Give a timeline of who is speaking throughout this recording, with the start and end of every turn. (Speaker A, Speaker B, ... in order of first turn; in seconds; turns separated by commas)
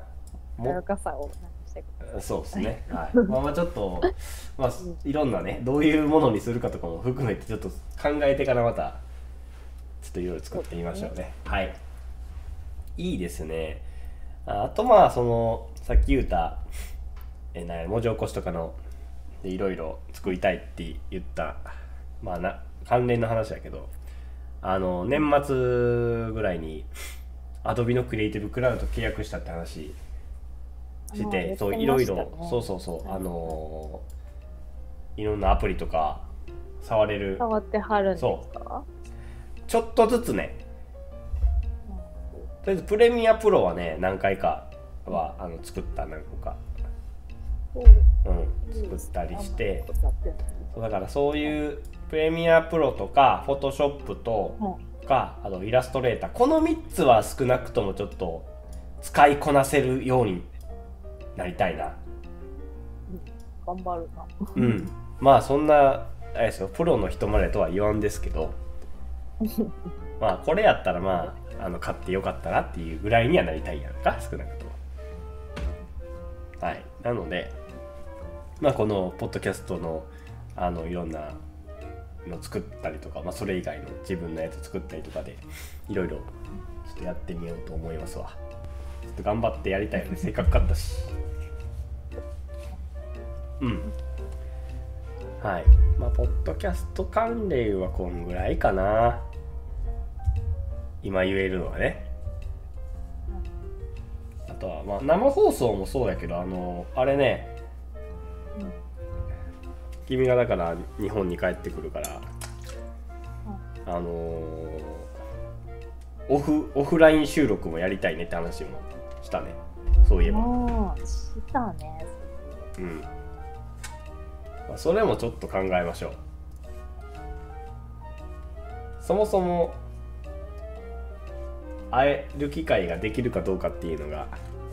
Speaker A: 0.6-3.3, Speaker B: 2.0-9.0, Speaker B: 10.0-11.8, Speaker A: 10.5-11.1, Speaker B: 13.0-13.8, Speaker B: 14.4-16.6, Speaker B: 17.5-18.8, Speaker B: 19.4-23.9, Speaker B: 24.6-26.9, Speaker B: 27.6-30.0, Speaker A: 31.1-33.6, Speaker B: 31.2-34.0, Speaker B: 35.2-36.3, Speaker B: 36.8-37.4, Speaker A: 37.4-38.9, Speaker B: 38.2-38.4, Speaker B: 39.7-40.6, Speaker A: 41.9-42.5, Speaker B: 42.6-46.6, Speaker A: 47.7-48.1, Speaker B: 48.2-49.9, Speaker A: 48.6-50.7, Speaker B: 50.7-58.5, Speaker A: 54.6-54.9, Speaker B: 59.0-60.5, Speaker B: 61.4-62.0, Speaker A: 63.1-64.8, Speaker B: 64.6-68.6, Speaker A: 69.4-69.7, Speaker B: 70.2-74.8, Speaker B: 76.6-77.6, Speaker B: 78.6-81.4, Speaker B: 82.2-86.3, Speaker B: 86.8-88.4, Speaker B: 89.1-91.2, Speaker B: 93.6-93.9, Speaker B: 95.4-99.3, Speaker B: 101.0-102.1, Speaker B: 104.5-107.6, Speaker A: 108.5-108.8, Speaker B: 110.1-112.3, Speaker B: 113.8-115.1, Speaker B: 116.3-120.5, Speaker A: 120.2-122.7, Speaker B: 122.8-123.1, Speaker B: 124.7-126.2, Speaker B: 129.0-129.8, Speaker B: 131.9-134.4